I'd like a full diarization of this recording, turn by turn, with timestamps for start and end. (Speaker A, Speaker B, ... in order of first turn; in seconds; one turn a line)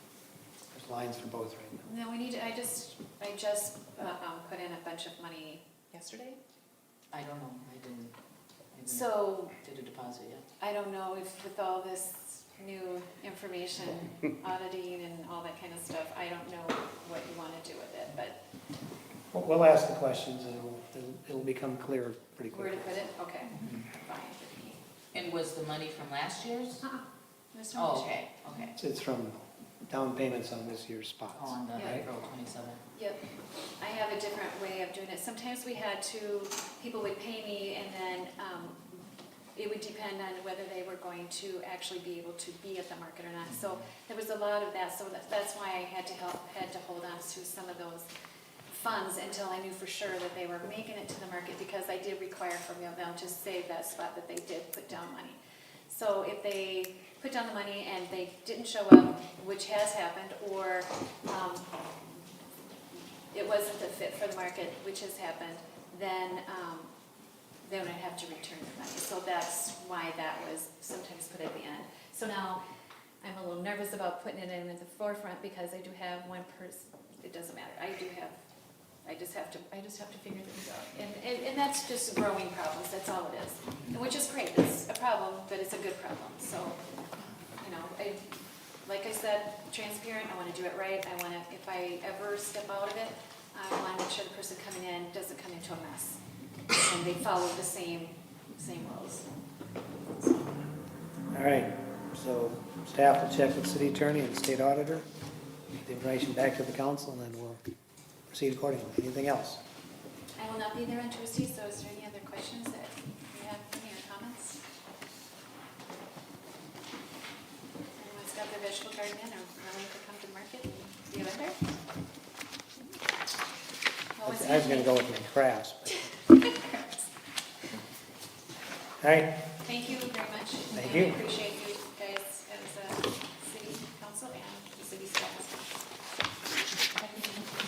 Speaker A: 0.7-1.9
Speaker B: 1.9-6.4
Speaker C: 7.1-8.1
Speaker C: 8.7-10.4
Speaker B: 8.9-9.5
Speaker B: 10.6-18.4
Speaker A: 19.3-23.0
Speaker B: 22.5-24.8
Speaker C: 25.1-26.8
Speaker B: 26.8-28.3
Speaker C: 27.8-28.7
Speaker A: 28.8-32.0
Speaker C: 31.3-32.8
Speaker B: 31.8-32.0
Speaker B: 32.9-33.2
Speaker B: 33.8-39.0
Speaker B: 39.5-48.1
Speaker B: 48.7-61.7
Speaker B: 63.3-66.9
Speaker B: 67.6-72.6
Speaker B: 73.2-78.5
Speaker B: 79.0-86.8
Speaker C: 83.7-84.0
Speaker B: 87.6-96.2
Speaker B: 96.7-99.3
Speaker A: 101.3-105.1
Speaker A: 105.7-107.6
Speaker A: 108.3-109.6
Speaker B: 110.4-114.6
Speaker B: 118.0-121.6
Speaker B: 124.2-125.1
Speaker A: 124.2-126.1
Speaker B: 126.5-127.0
Speaker A: 129.0-129.4
Speaker B: 129.7-135.7
Speaker A: 130.7-131.2
Speaker B: 137.0-137.4